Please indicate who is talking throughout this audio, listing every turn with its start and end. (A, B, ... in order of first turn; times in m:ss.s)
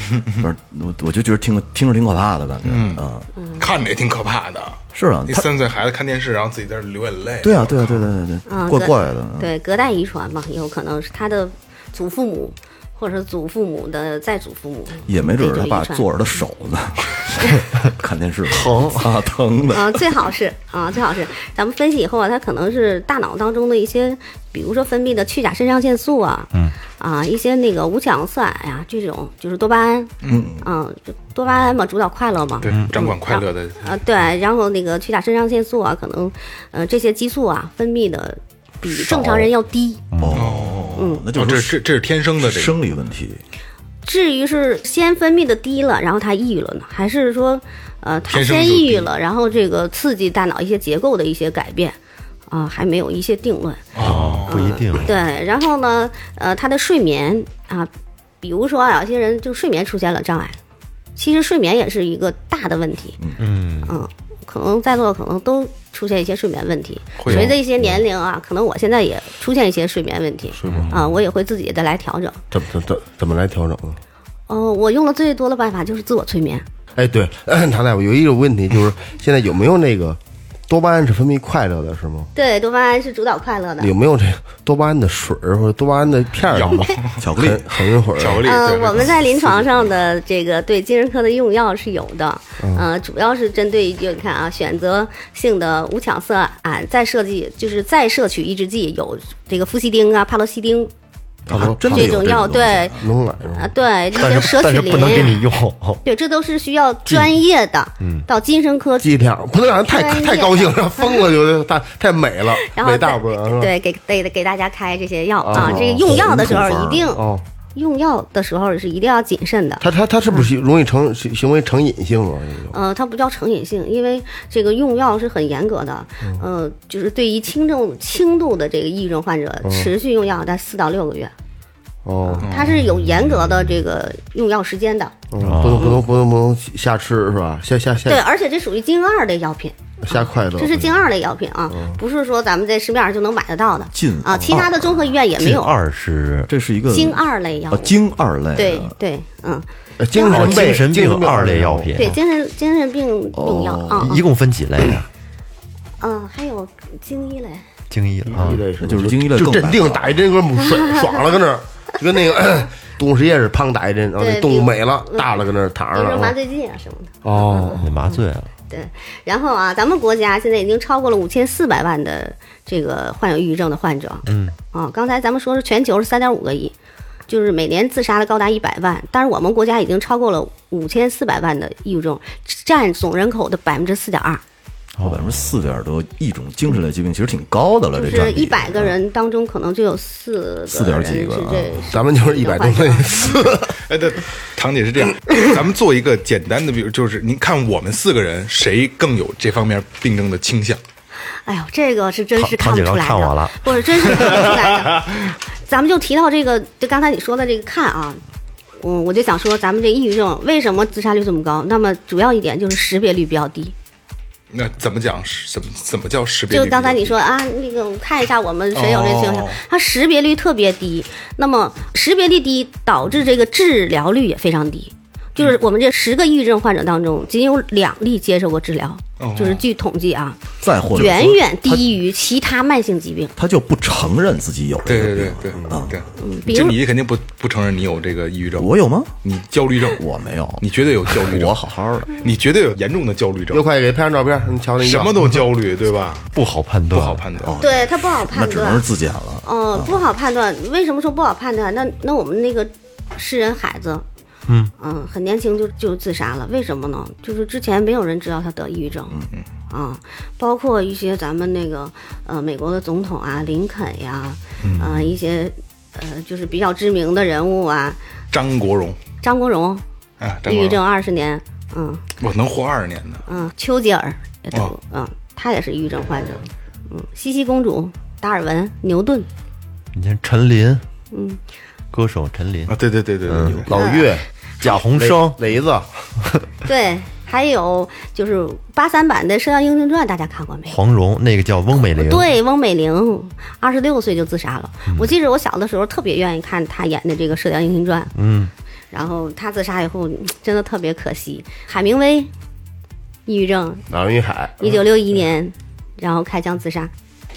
0:00.3-0:03.3 A
0:02.6-0:03.0 B
0:03.4-0:03.7 C
0:03.6-0:08.1 B
0:04.9-0:05.5 A
0:07.4-0:09.5 A
0:08.5-0:16.0 C
0:15.0-0:20.1 A
0:18.5-0:19.1 D
0:19.7-0:40.0 C
0:30.2-0:30.6 B
0:30.2-0:30.6 A
0:32.6-0:33.9 B
0:32.7-0:32.9 D
0:38.8-0:39.5 A
0:40.1-0:40.5 D
0:40.2-0:41.8 A
0:40.3-0:42.7 B
0:41.0-0:41.2 C
0:42.4-0:43.4 A
0:44.0-0:52.0 C
0:48.3-0:49.1 B
0:52.5-0:57.9 C
0:53.9-0:54.7 B
0:54.0-0:55.1 D
0:58.4-1:00.6 C
1:01.2-1:03.2 C
1:03.4-1:04.0 D
1:03.8-1:12.4 C
1:07.2-1:07.6 B
1:10.6-1:11.0 E
1:10.7-1:10.9 D
1:12.5-1:14.0 E
1:14.5-1:16.6 C
1:17.0-1:22.3 E
1:22.4-1:23.9 C
1:23.8-1:28.5 E
1:26.5-1:27.3 B
1:27.2-1:27.7 A
1:28.1-1:29.4 B
1:28.4-1:40.9 C
1:32.6-1:32.9 E
1:41.5-1:43.0 A
1:41.5-1:42.2 E
1:41.9-1:43.0 C
1:43.0-1:43.7 E
1:43.5-1:45.4 C
1:44.2-1:46.0 D
1:46.0-1:49.1 C
1:47.1-1:47.4 D
1:48.0-1:48.2 D
1:49.0-1:53.7 E
1:49.8-1:51.2 C
1:52.6-2:00.4 C
1:55.4-1:57.4 E
1:59.8-2:02.8 E
2:02.7-2:11.3 C
2:09.6-2:09.9 E
2:12.0-2:12.5 E
2:12.2-2:15.1 C
2:12.4-2:12.8 B
2:15.3-2:18.2 E
2:15.4-2:16.0 D
2:18.0-2:25.7 C
2:20.0-2:20.8 E
2:21.7-2:22.0 E
2:23.9-2:25.1 A
2:25.4-2:26.5 D
2:26.5-2:28.9 A
2:26.8-2:27.9 C
2:28.5-2:30.8 C
2:30.0-2:31.9 E
2:30.3-2:32.2 D
2:32.0-2:34.2 C
2:33.3-2:34.1 A
2:34.0-2:35.1 D
2:36.0-2:37.7 C
2:37.9-2:38.6 D
2:38.3-2:46.3 E
2:38.8-2:40.2 A
2:44.2-2:45.4 C
2:45.9-2:56.7 C
2:47.2-2:47.8 E
2:47.7-2:48.5 D
2:54.2-2:54.5 D
2:57.3-3:04.4 C
3:05.0-3:05.4 D
3:05.0-3:09.0 A
3:08.0-3:13.3 C
3:10.7-3:11.8 A
3:11.9-3:13.8 E
3:13.7-3:20.8 B
3:21.4-3:28.2 C
3:22.4-3:24.6 D
3:24.3-3:25.0 B
3:28.8-3:33.7 C
3:34.5-3:37.1 B
3:36.5-3:50.4 C
3:38.7-3:39.6 B
3:49.2-3:49.6 B
3:50.6-3:51.8 A
3:50.9-3:53.3 C
3:53.4-3:56.0 A
3:54.9-3:58.7 B
3:56.2-3:56.8 C
3:58.6-3:59.1 A
3:59.2-4:00.0 B
3:59.9-4:02.1 A
4:00.6-4:01.6 B
4:02.1-4:03.6 B
4:03.5-4:05.1 E
4:04.8-4:06.3 B
4:06.3-4:07.2 D
4:06.9-4:07.6 B
4:07.4-4:10.0 A
4:07.6-4:08.8 C
4:09.4-4:14.0 C
4:14.8-4:28.0 C
4:24.6-4:25.1 B
4:28.3-4:29.0 B
4:29.2-4:29.8 C
4:30.2-4:30.8 B
4:30.4-4:32.0 C
4:32.2-4:33.2 B
4:33.3-4:39.3 C
4:39.9-4:40.8 D
4:41.1-4:41.4 C
4:41.9-4:43.8 D
4:42.7-4:43.7 B
4:43.7-4:45.9 E
4:43.8-4:44.1 C
4:44.6-4:45.4 D
4:46.6-4:50.7 C
4:50.6-4:52.3 D
4:51.7-4:58.1 C
4:58.1-4:58.5 D
4:58.9-5:02.3 C
5:03.2-5:03.8 C
5:03.9-5:04.8 E
5:04.6-5:06.9 C